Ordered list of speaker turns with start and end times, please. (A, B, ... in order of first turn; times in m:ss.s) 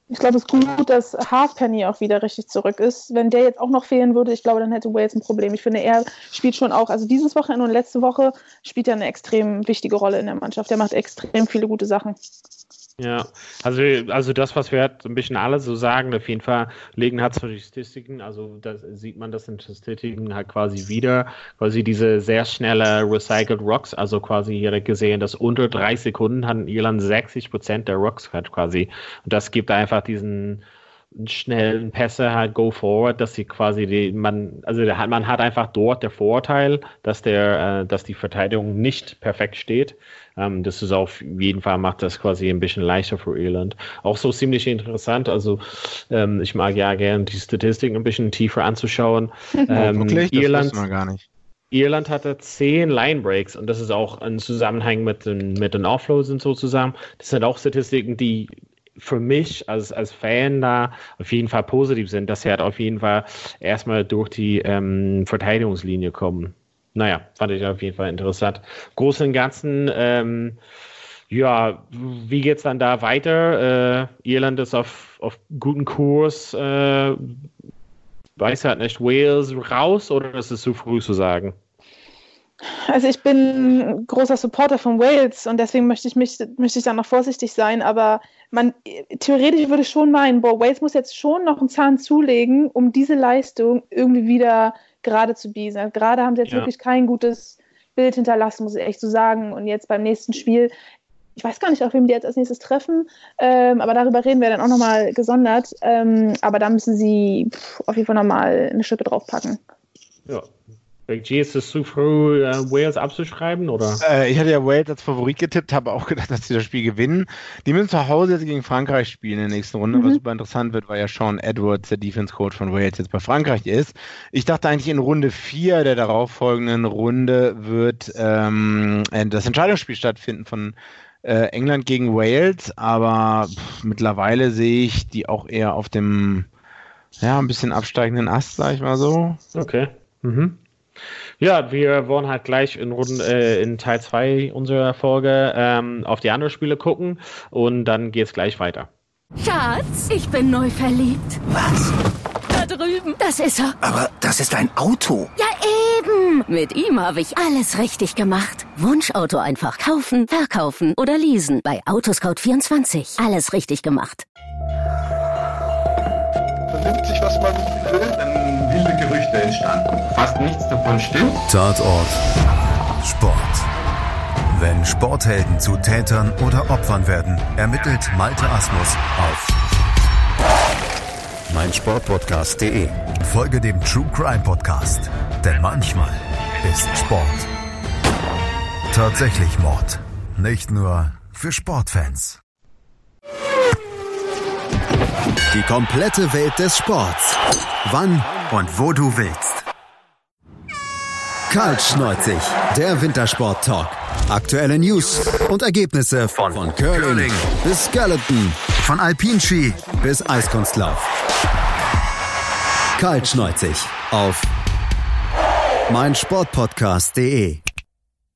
0:00.1-0:12.2 A
0:13.0-0:30.6 B
0:31.2-0:50.8 B
0:49.7-0:51.2 C
0:51.7-1:10.6 B
1:11.3-1:17.3 B
1:18.4-1:21.5 B
1:22.8-1:40.7 A
1:41.4-1:49.6 A
1:51.1-1:54.0 B
1:54.0-2:16.5 C
1:59.9-2:00.2 A
2:17.2-2:19.4 C
2:19.5-2:20.6 B
2:21.4-2:28.9 B
2:29.4-2:31.4 D
2:31.5-2:31.9 E
2:32.5-2:33.8 D
2:33.8-2:35.3 E
2:35.4-2:44.2 D
2:47.1-2:49.6 F
2:51.5-2:52.2 G
2:53.0-2:53.6 G
2:54.5-2:59.5 G
3:01.5-3:07.5 G
3:08.9-3:12.4 G
3:15.5-3:19.6 G
3:21.5-3:31.1 G
3:33.0-3:34.5 G
3:35.9-3:37.6 G